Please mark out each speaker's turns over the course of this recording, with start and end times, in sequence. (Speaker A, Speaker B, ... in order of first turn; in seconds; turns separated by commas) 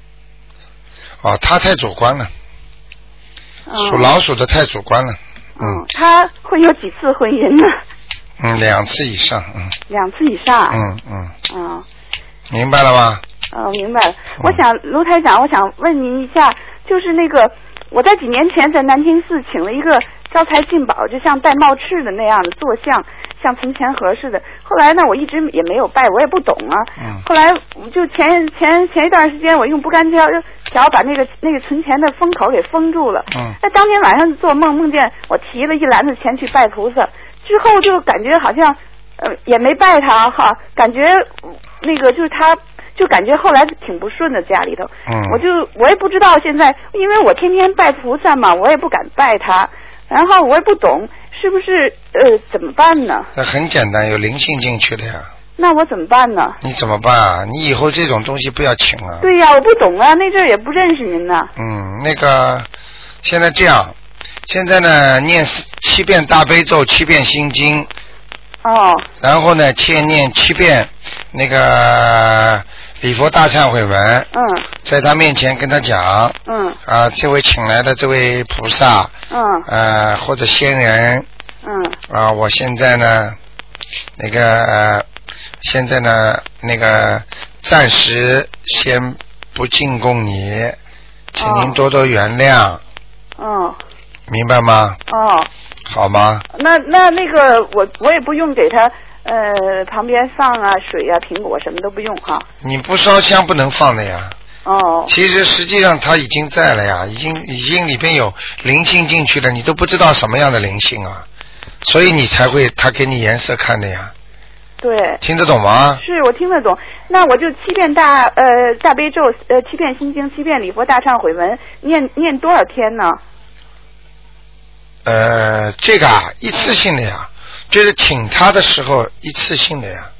Speaker A: 1.2-2.3, Speaker B: 3.7-4.1, Speaker A: 3.8-5.8, Speaker B: 5.6-7.8, Speaker A: 8.4-9.8, Speaker B: 9.9-10.8, Speaker A: 10.7-11.3, Speaker B: 11.5-11.8, Speaker A: 12.5-13.2, Speaker B: 13.5-53.3, Speaker A: 27.0-27.2, Speaker A: 45.1-45.4, Speaker A: 53.4-55.3, Speaker B: 55.6-56.6, Speaker A: 56.6-59.3, Speaker B: 59.2-61.5, Speaker A: 61.6-62.7, Speaker A: 63.2-64.0, Speaker A: 64.5-67.9, Speaker B: 68.6-69.1, Speaker A: 69.2-74.3, Speaker B: 74.3-74.7, Speaker A: 74.8-79.1, Speaker B: 76.5-76.8, Speaker B: 79.3-79.7, Speaker A: 79.7-81.3, Speaker B: 81.6-82.0, Speaker A: 82.1-83.4, Speaker A: 84.2-85.1, Speaker A: 85.6-90.8, Speaker A: 91.3-92.8, Speaker B: 91.4-91.8, Speaker B: 93.4-93.8, Speaker A: 94.3-95.0, Speaker B: 95.1-95.5, Speaker A: 95.9-96.5, Speaker B: 96.5-102.5, Speaker A: 102.6-104.4, Speaker B: 104.7-105.1, Speaker A: 105.1-111.2, Speaker A: 111.8-114.1, Speaker B: 114.8-115.2, Speaker A: 115.2-116.0, Speaker B: 116.0-123.2, Speaker A: 125.0-130.1